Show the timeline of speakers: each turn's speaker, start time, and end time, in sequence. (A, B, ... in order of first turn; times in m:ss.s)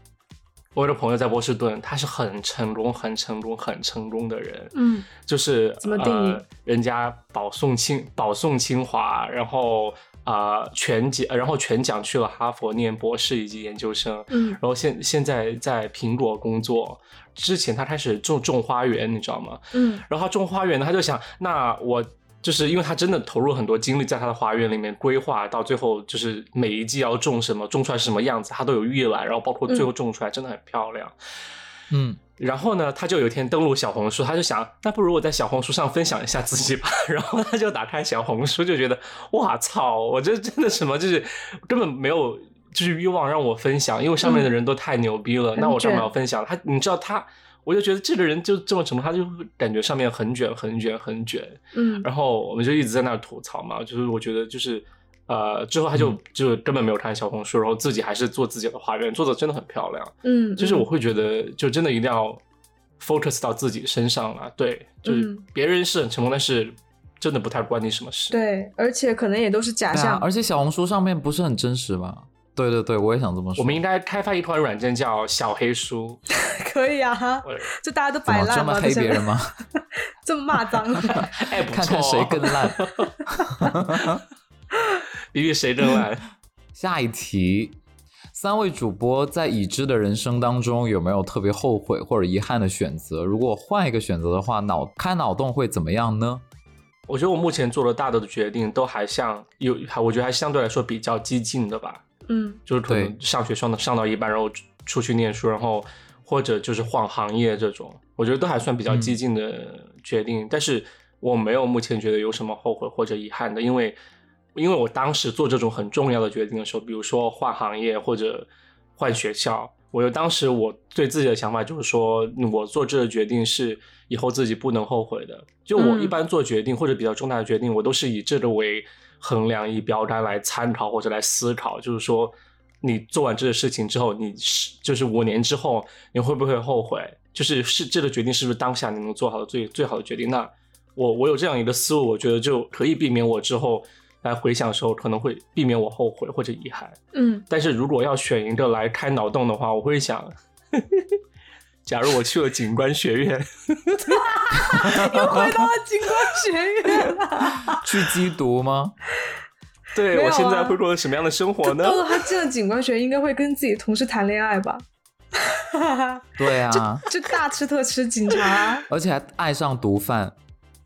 0:00.7-0:31.1 A
0:04.7-0:05.1 B
0:05.8-0:06.4 B
0:14.3-0:14.6 B
0:19.7-0:20.0 B
0:31.9-0:32.2 C
0:32.4-1:02.4 A
0:44.2-0:44.5 B
0:45.6-0:46.1 B
0:51.7-0:52.1 B
1:00.2-1:00.9 B
1:03.0-1:08.4 A
1:05.0-1:05.4 B
1:08.3-1:10.2 B
1:09.9-1:13.8 C
1:13.6-1:16.2 A
1:16.3-1:21.3 B
1:17.4-1:17.7 A
1:18.3-1:19.5 C
1:21.2-1:23.1 A
1:21.2-1:24.2 C
1:25.3-1:26.3 A
1:26.7-1:27.8 C
1:28.3-1:36.4 C
1:37.1-1:42.0 A
1:42.3-1:42.6 B
1:42.7-1:54.0 A
1:42.9-1:43.1 C
1:48.9-1:49.2 C
1:54.5-2:31.1 A
2:05.8-2:06.2 B
2:27.1-2:27.4 B
2:31.8-2:34.3 A
2:34.0-2:37.8 B
2:34.8-2:35.5 C
2:37.7-2:38.9 C
2:39.9-2:42.3 A
2:40.1-2:40.8 B
2:41.6-2:44.8 B
2:45.4-2:48.9 B
2:46.4-2:47.0 C
2:48.9-2:50.4 C